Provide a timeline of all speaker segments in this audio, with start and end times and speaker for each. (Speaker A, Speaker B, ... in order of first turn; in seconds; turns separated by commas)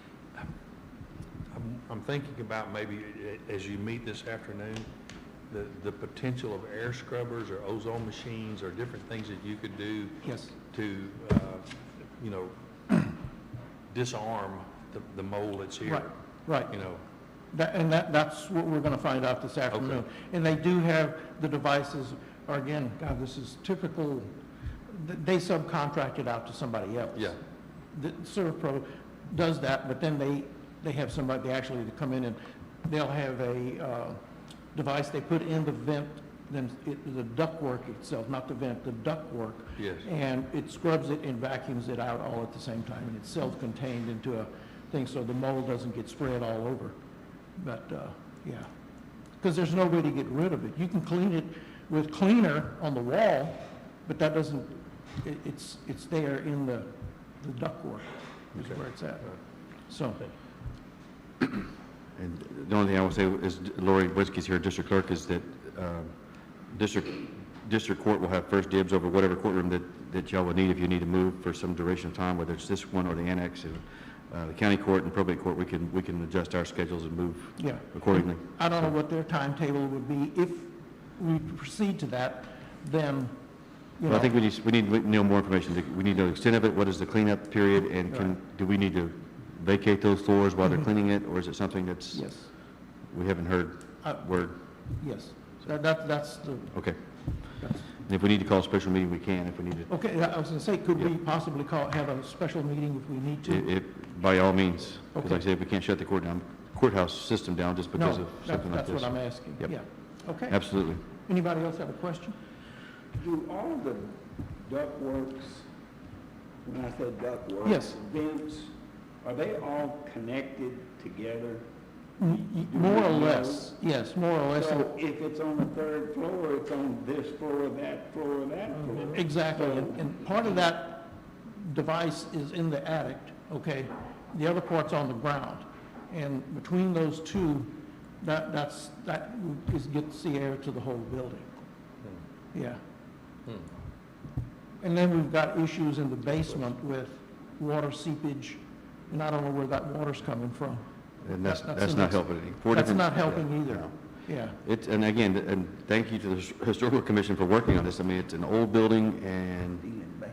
Speaker A: 1.5-4.9, Speaker A: 5.5-13.1, Speaker B: 10.2-10.5, Speaker A: 13.9-16.1, Speaker B: 15.8-16.7, Speaker A: 16.7-17.0, Speaker B: 17.5-24.3, Speaker A: 19.7-20.0, Speaker B: 24.9-27.3, Speaker B: 27.9-34.2, Speaker B: 34.7-47.0, Speaker A: 39.8-40.0, Speaker B: 47.6-48.7, Speaker B: 49.4-59.3, Speaker A: 58.6-59.3, Speaker B: 59.9-60.2, Speaker C: 62.1-66.1, Speaker C: 66.7-78.5, Speaker B: 77.6-83.3, Speaker B: 84.0-84.3, Speaker C: 84.0-92.2, Speaker B: 88.1-88.4, Speaker B: 92.1-92.5, Speaker C: 93.1-94.5, Speaker B: 95.0-96.8, Speaker B: 97.6-97.8, Speaker C: 98.0-99.9, Speaker B: 99.9-103.7, Speaker C: 103.4-109.7, Speaker B: 105.1-105.4, Speaker B: 107.9-112.3, Speaker C: 110.5-111.0, Speaker D: 113.2-115.7, Speaker D: 116.6-118.7, Speaker B: 117.6-118.0, Speaker D: 119.2-121.7, Speaker B: 122.2-124.9, Speaker D: 122.5-123.7, Speaker D: 124.5-130.0, Speaker B: 129.1-141.5, Speaker B: 142.5-142.8, Speaker B: 144.8-154.6, Speaker C: 151.2-153.9, Speaker C: 154.6-159.9